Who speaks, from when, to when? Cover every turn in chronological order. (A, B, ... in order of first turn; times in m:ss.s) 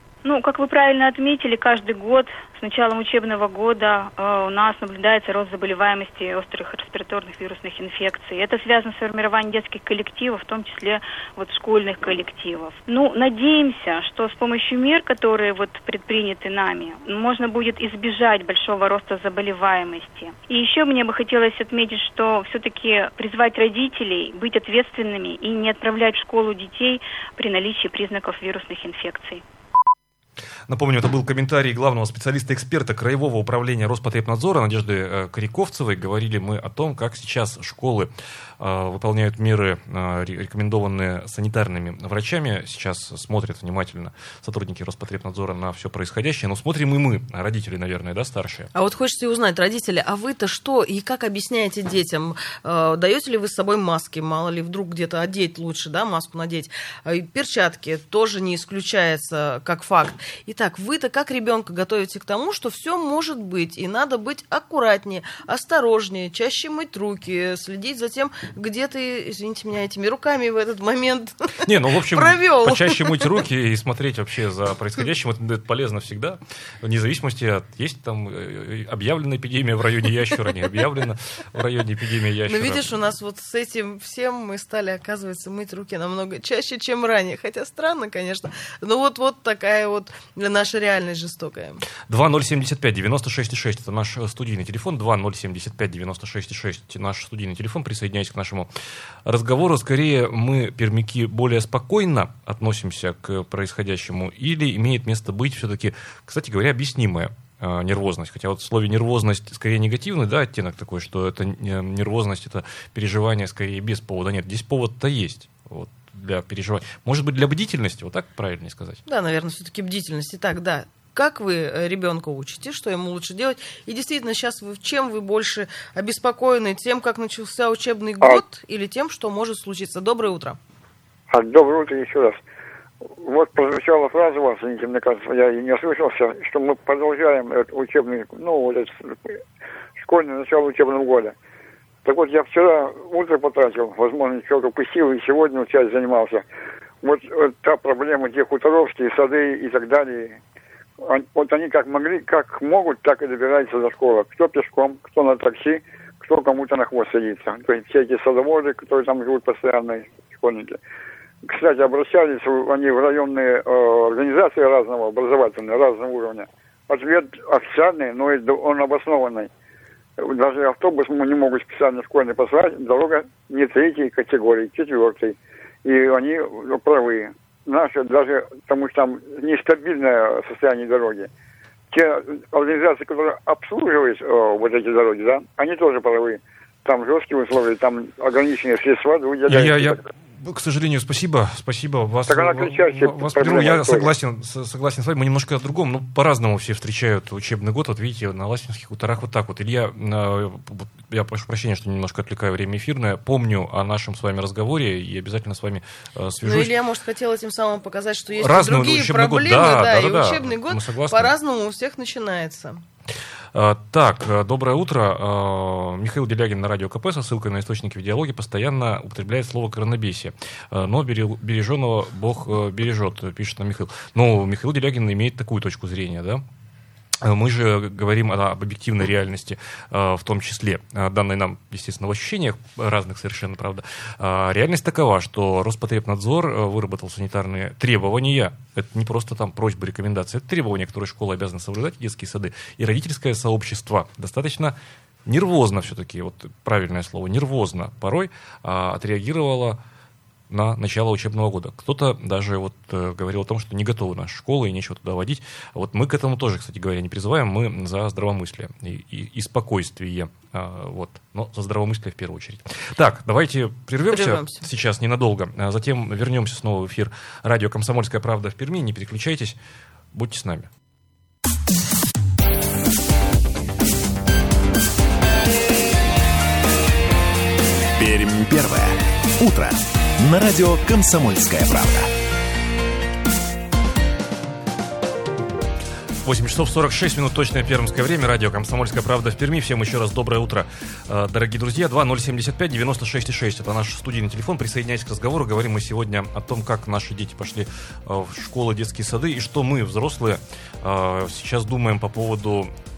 0:00.2-0:29.4 A
0:30.7-0:38.1 B
0:38.6-0:48.7 B
0:48.7-1:13.2 C
1:11.6-1:22.9 B
1:22.5-1:31.8 C
1:32.1-1:38.7 B
1:39.3-1:59.0 B
1:59.1-2:10.6 C
2:11.3-2:12.4 D
2:13.1-2:19.4 D
2:20.0-2:21.4 D
2:22.0-2:26.4 D
2:27.0-2:30.4 D
2:31.0-2:40.8 D
2:41.4-2:49.5 D
2:50.2-3:01.3 D
3:01.9-3:10.0 D
3:09.5-3:26.7 B
3:12.3-3:14.1 D
3:26.4-3:32.8 C
3:28.4-3:31.3 B
3:33.5-3:46.4 B
3:47.2-4:09.8 B
4:10.5-4:29.6 B
4:24.1-4:24.6 C
4:30.1-4:30.7 B
4:38.0-4:42.1 E
4:46.2-5:02.7 B